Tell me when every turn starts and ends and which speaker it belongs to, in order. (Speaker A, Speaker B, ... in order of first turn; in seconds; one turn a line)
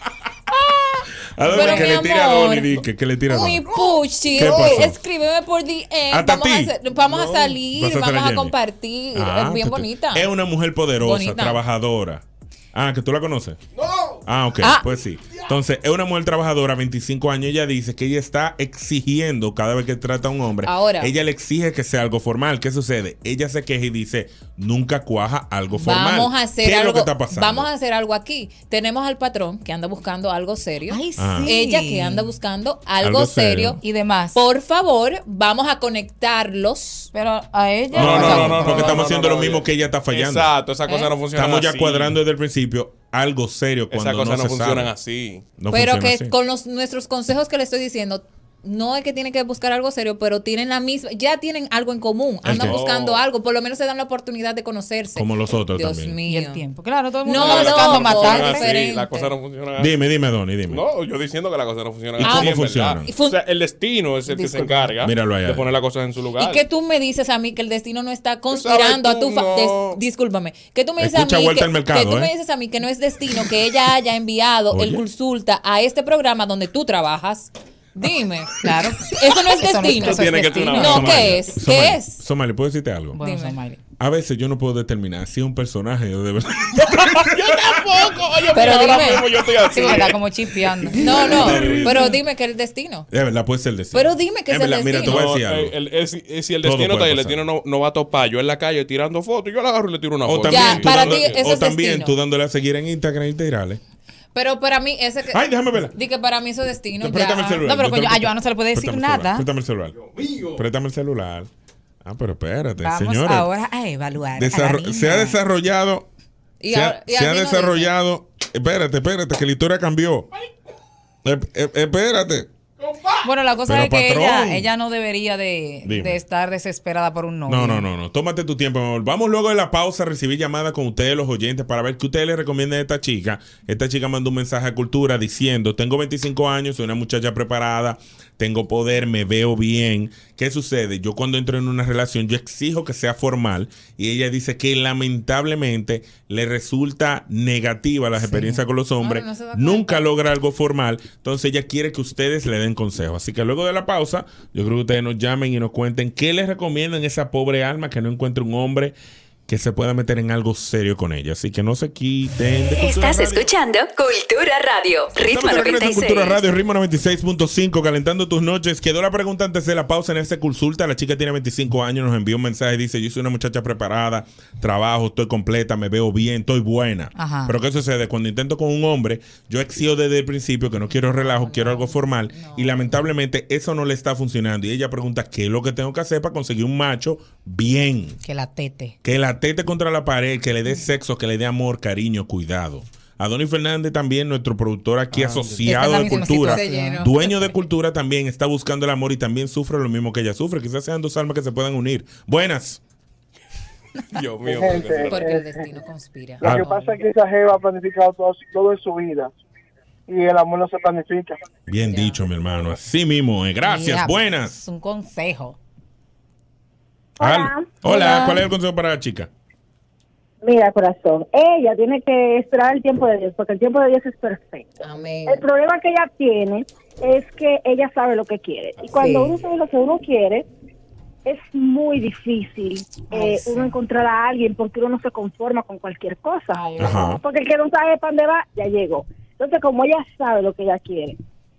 Speaker A: 0.7-2.7
Speaker B: 1.3-3.7
Speaker A: 3.4-10.3
Speaker B: 4.3-5.0
Speaker B: 6.1-6.7
Speaker C: 7.1-7.4
Speaker B: 7.7-8.6
Speaker B: 9.2-13.6
Speaker A: 11.0-11.6
Speaker C: 13.8-14.2
Speaker B: 14.2-27.7
Speaker A: 20.6-21.1
Speaker A: 25.7-33.8
Speaker D: 30.9-32.3
Speaker B: 31.2-31.5
Speaker B: 33.0-33.8
Speaker D: 33.8-34.4
Speaker A: 34.3-37.1
Speaker D: 37.1-39.0
Speaker C: 37.9-42.1
Speaker B: 37.9-40.5
Speaker A: 40.9-41.1
Speaker B: 41.4-44.9
Speaker C: 43.9-45.5
Speaker B: 45.6-46.4
Speaker A: 45.7-56.6
Speaker B: 52.4-52.8
Speaker C: 52.5-53.2
Speaker B: 55.1-56.2
Speaker D: 56.2-58.8
Speaker A: 57.2-59.3
Speaker C: 57.3-59.9
Speaker B: 59.8-60.8
Speaker C: 60.7-66.6
Speaker B: 62.2-63.1
Speaker A: 62.2-63.4
Speaker A: 64.3-64.9
Speaker B: 65.0-65.7
Speaker A: 66.4-82.2
Speaker C: 68.5-70.0
Speaker B: 71.0-72.3
Speaker B: 74.7-75.1
Speaker D: 78.6-81.1
Speaker C: 80.0-81.4
Speaker B: 80.8-83.2
Speaker D: 83.2-83.8
Speaker A: 83.2-83.6
Speaker B: 84.0-87.5
Speaker C: 86.8-90.2
Speaker A: 88.5-90.0
Speaker D: 89.7-91.6
Speaker C: 90.9-92.2
Speaker A: 91.0-93.1
Speaker B: 91.6-92.1
Speaker B: 93.1-95.7
Speaker A: 93.9-95.2
Speaker C: 95.0-101.4
Speaker B: 96.6-97.4
Speaker B: 100.2-103.8
Speaker A: 100.5-102.1
Speaker A: 104.3-105.4
Speaker B: 105.3-105.9
Speaker A: 105.9-107.6
Speaker B: 107.0-110.0
Speaker D: 107.6-109.5
Speaker C: 110.0-110.6
Speaker B: 110.5-111.5
Speaker B: 112.0-113.5
Speaker D: 112.8-115.4
Speaker B: 114.3-116.1
Speaker A: 116.6-117.9
Speaker B: 116.7-120.3
Speaker B: 121.2-122.5
Speaker D: 123.2-127.8
Speaker B: 123.7-124.7
Speaker B: 125.8-126.2
Speaker B: 127.5-158.9
Speaker D: 148.3-148.6
Speaker A: 149.0-150.1
Speaker B: 159.5-163.5
Speaker E: 162.8-166.4
Speaker B: 165.2-188.2
Speaker D: 177.2-177.6
Speaker A: 180.9-183.0
Speaker D: 188.2-189.0
Speaker B: 189.0-202.8
Speaker C: 195.1-195.7
Speaker D: 195.6-197.1
Speaker A: 196.1-197.5
Speaker C: 204.1-205.3
Speaker F: 204.5-205.5
Speaker A: 205.1-206.5
Speaker F: 206.4-209.3
Speaker F: 210.1-211.4
Speaker B: 211.7-214.6
Speaker D: 213.6-215.6
Speaker G: 217.2-217.8
Speaker B: 217.2-219.3
Speaker D: 217.9-218.4
Speaker G: 220.4-230.5
Speaker A: 224.8-225.4
Speaker A: 228.9-229.3
Speaker G: 231.3-241.2
Speaker A: 233.1-233.7
Speaker A: 236.6-237.0
Speaker B: 236.8-237.2